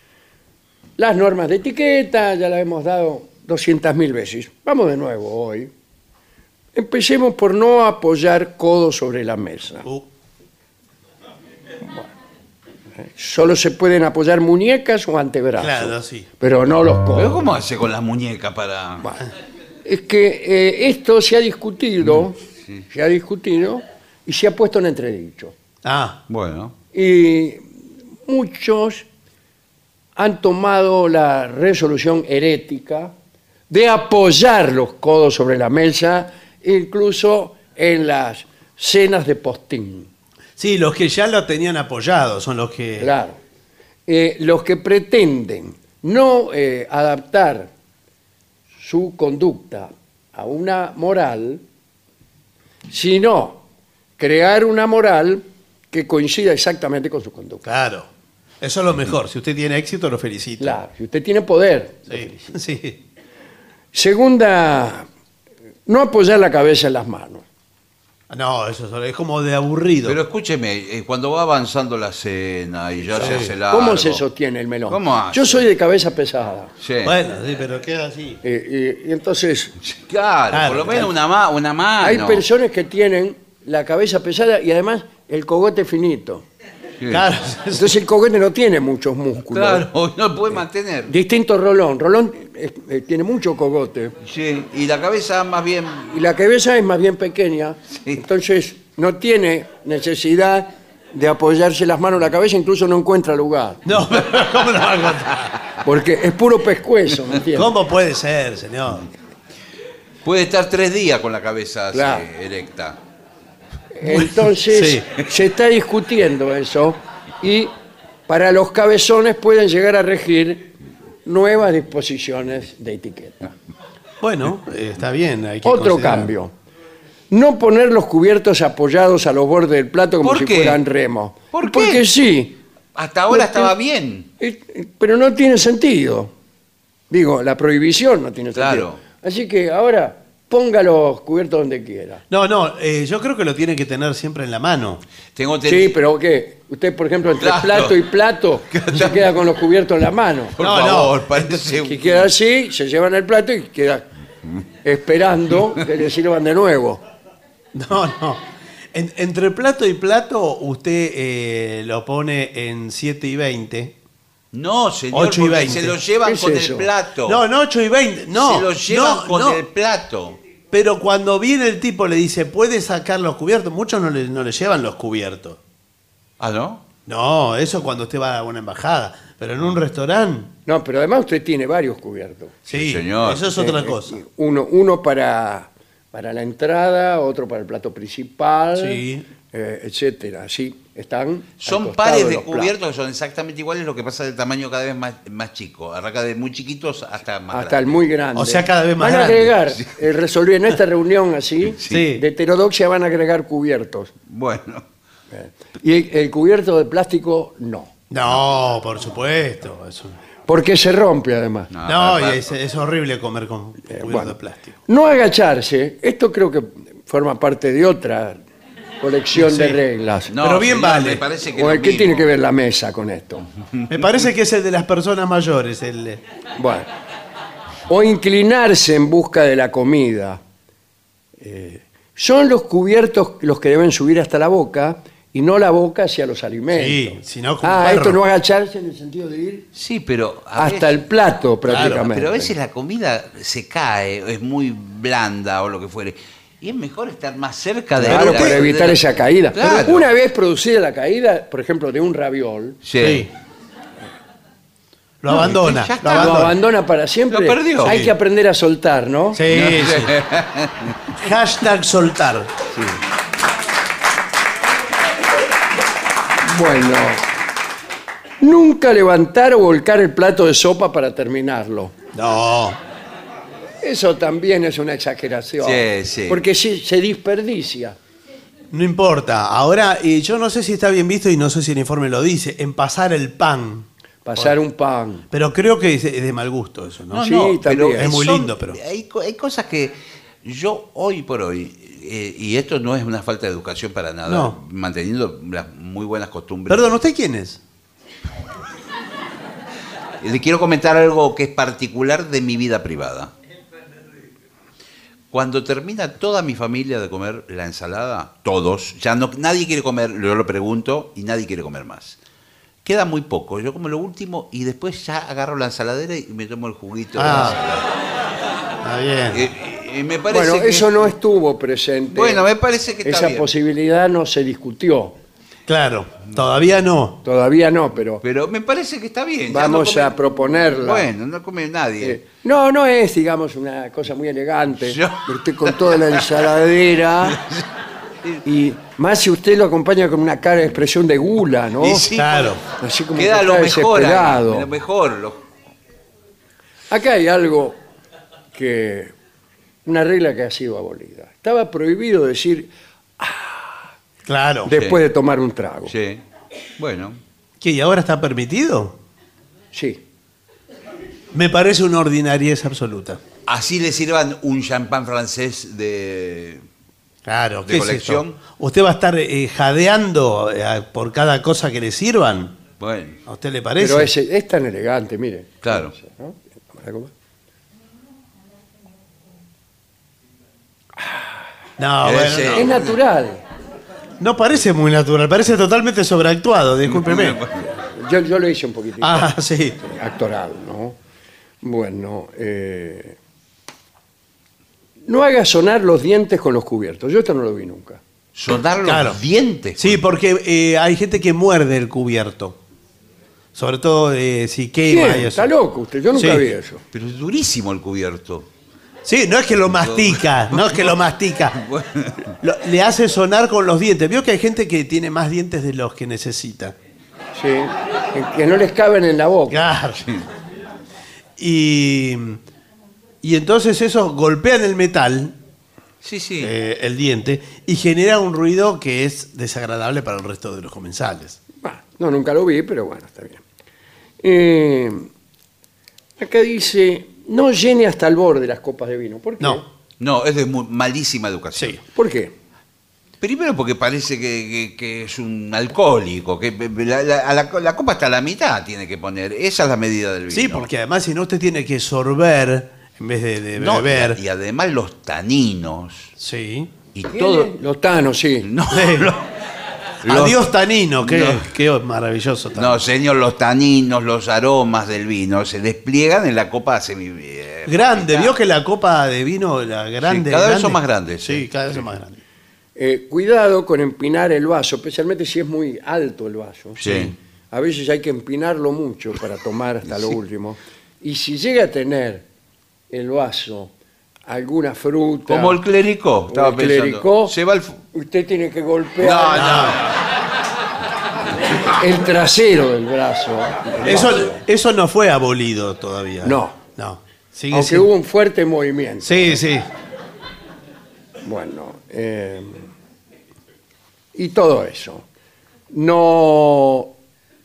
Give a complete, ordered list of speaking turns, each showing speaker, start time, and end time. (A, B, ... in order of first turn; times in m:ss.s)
0:01.0-0:05.7 A
0:06.8-0:09.9 A
0:13.0-0:17.5 A
0:15.6-0:16.3 B
0:17.2-0:19.1 C
0:19.8-0:22.4 A
0:22.9-0:25.6 A
0:25.8-0:26.2 B
0:26.3-0:26.8 C
0:26.9-0:27.7 A
0:28.3-0:29.1 A
0:30.2-0:33.1 A
0:33.7-0:40.1 A
0:40.6-0:43.1 B
0:43.0-0:43.4 A
0:44.1-0:47.7 A
0:48.8-0:51.6 A
0:52.9-0:53.6 A
0:54.2-0:57.6 A
0:57.6-0:58.1 B
0:58.6-1:00.8 B
1:00.6-1:02.6 A
1:02.1-1:03.0 B
1:03.9-1:05.1 A
1:05.9-1:07.4 A
1:08.3-1:10.2 B
1:10.0-1:14.2 C
1:13.2-1:13.5 B
1:13.2-1:16.7 A
1:14.9-1:15.7 C
1:16.8-1:17.2 C
1:17.0-1:18.4 B
1:18.4-1:19.7 A
1:19.8-1:22.4 C
1:20.5-1:21.1 B
1:22.0-1:26.4 A
1:27.0-1:27.3 C
1:27.1-1:28.0 B
1:27.7-1:29.9 A
1:29.4-1:31.1 C
1:31.1-1:34.1 A
1:34.2-1:36.1 C
1:36.1-1:43.8 A
1:43.9-1:45.5 B
1:45.8-1:47.8 A
1:47.5-1:49.1 B
1:50.2-1:53.0 C
1:51.9-1:52.3 A
1:54.0-1:57.7 A
1:54.1-1:55.1 B
1:58.3-2:00.7 A
2:01.2-2:03.5 A
2:04.2-2:06.3 B
2:05.6-2:06.5 A
2:07.3-2:12.6 A
2:10.2-2:10.8 C
2:11.5-2:12.0 C
2:13.0-2:14.3 C
2:13.3-2:13.7 A
2:14.4-2:16.3 A
2:17.1-2:22.2 A
2:18.6-2:19.0 C
2:22.3-2:25.0 B
2:25.4-2:26.0 C
2:25.7-2:30.6 A
2:27.4-2:28.0 C
2:28.7-2:29.3 C
2:30.6-2:32.3 C
2:30.6-2:31.2 B
2:31.6-2:34.1 A
2:34.8-2:37.0 A
2:37.7-2:38.4 B
2:38.9-2:43.9 B
2:44.5-2:47.4 C
2:45.1-2:46.0 B
2:46.2-2:46.9 A
2:47.3-2:49.6 B
2:48.3-2:50.4 C
2:50.7-2:55.6 B
2:56.4-2:56.8 C
2:57.1-3:00.5 B
3:00.7-3:02.6 A
3:02.7-3:04.2 B
3:02.7-3:03.5 C
3:03.5-3:12.7 A
3:08.8-3:09.2 B
3:11.6-3:18.0 C
3:17.5-3:24.1 A
3:18.4-3:19.6 B
3:21.8-3:22.1 C
3:21.9-3:22.2 B
3:24.3-3:24.8 C
3:25.3-3:27.9 A
3:28.1-3:30.2 B
3:30.5-3:31.7 A
3:31.7-3:32.4 C
3:31.9-3:34.8 B
3:33.9-3:34.4 A
3:34.9-3:38.4 A
3:39.0-3:40.3 A
3:39.3-3:39.8 B
3:40.3-3:42.3 C
3:40.4-3:41.3 B
3:41.5-3:43.5 A
3:43.9-3:46.2 B
3:46.6-3:46.9 A
3:47.9-3:50.4 A
3:51.4-3:59.7 A
3:56.7-3:58.2 B
3:59.8-4:01.0 C
4:00.6-4:02.5 A
4:01.7-4:10.1 C
4:01.7-4:02.0 B
4:08.0-4:12.8 A
4:08.0-4:08.6 B
4:12.8-4:13.3 C
4:13.0-4:13.3 B
4:15.2-4:16.5 B
4:15.3-4:16.5 C
4:16.1-4:19.4 A
4:17.3-4:18.0 C
4:17.8-4:18.1 B
4:19.3-4:20.1 B
4:19.5-4:21.0 C
4:21.2-4:22.5 B
4:26.4-4:27.2 A
4:28.4-4:31.9 A
4:32.1-4:32.8 B
4:33.8-4:38.0 A
4:35.6-4:36.4 C
4:38.7-4:44.6 B
4:44.2-4:45.3 A
4:45.3-4:48.8 B
4:47.1-4:57.0 C
4:47.2-4:48.1 A
4:54.3-4:54.6 B
4:56.7-4:57.6 B
5:00.2-5:03.3 C
5:05.3-5:12.2 C
5:12.8-5:17.9 C
5:17.2-5:17.6 B
5:18.8-5:19.5 B
5:19.3-5:21.1 C
5:20.3-5:22.4 A
5:22.1-5:23.5 C
5:23.0-5:25.2 A
5:25.7-5:27.2 B
5:27.2-5:28.2 A
5:28.2-5:32.2 C
5:29.5-5:31.1 A
5:32.0-5:37.4 A
5:34.9-5:35.2 C
5:38.4-5:42.0 A
5:41.8-5:42.6 C
5:42.1-5:42.6 B
5:42.8-5:44.7 A
5:43.2-5:45.4 C
5:46.9-5:47.8 A
5:48.5-5:49.1 A
5:49.9-5:53.8 A
5:54.3-5:54.7 B
5:54.6-5:55.9 A
5:54.7-5:55.0 C
5:55.9-5:56.2 C
5:56.8-5:57.2 C
5:57.6-5:59.0 B
5:59.7-6:00.0 A
6:01.3-6:03.2 B
6:03.5-6:06.6 C
6:07.3-6:12.6 B
6:07.7-6:08.4 C
6:12.8-6:13.2 C
6:13.3-6:14.1 B
6:13.8-6:17.1 A
6:15.6-6:15.9 C
6:21.8-6:22.7 B
6:22.0-6:22.9 C
6:22.5-6:23.4 A
6:24.2-6:27.4 B
6:26.9-6:27.7 C
6:28.0-6:31.0 A
6:29.0-6:29.8 B
6:31.6-6:33.2 A
6:35.1-6:38.0 A
6:38.4-6:40.0 C
6:38.8-6:39.2 B
6:39.8-6:42.6 B
6:43.6-6:45.5 B
6:44.9-6:46.8 A
6:46.1-6:46.5 B
6:46.9-6:48.5 C
6:49.0-6:51.6 B
6:49.8-6:50.9 C
6:51.5-6:52.3 C
6:52.4-6:56.8 B
6:57.4-6:59.6 A
6:59.5-7:00.1 B
7:01.4-7:02.4 B
7:03.2-7:05.4 B
7:06.0-7:06.5 C
7:06.4-7:11.4 B
7:11.6-7:13.4 A
7:14.2-7:15.1 A
7:16.2-7:19.6 A
7:19.4-7:19.7 B
7:20.0-7:21.8 C
7:21.6-7:21.8 B
7:22.0-7:22.3 A
7:23.2-7:30.7 C
7:30.3-7:34.2 B
7:33.6-7:36.1 C
7:36.2-7:36.7 B
7:37.0-7:37.5 C
7:37.1-7:38.5 A
7:38.4-7:39.3 C
7:38.7-7:39.1 B
7:40.0-7:40.4 C
7:40.0-7:42.8 B
7:41.0-7:41.5 C
7:42.6-7:48.3 C
7:47.7-7:52.2 B
7:50.0-7:51.8 C
7:52.8-7:56.8 A
7:56.8-7:57.1 C
7:56.8-7:57.2 B
7:57.5-8:02.2 A
8:02.9-8:03.7 A
8:04.3-8:05.6 A
8:05.3-8:07.8 C
8:06.3-8:07.3 A
8:07.9-8:09.7 A
8:09.0-8:09.9 C
8:09.3-8:09.8 B
8:11.6-8:14.4 A
8:13.8-8:17.9 B
8:16.2-8:16.6 A
8:17.5-8:19.4 A
8:19.0-8:19.7 B
8:21.2-8:22.7 A
8:24.2-8:25.1 A
8:25.7-8:26.9 A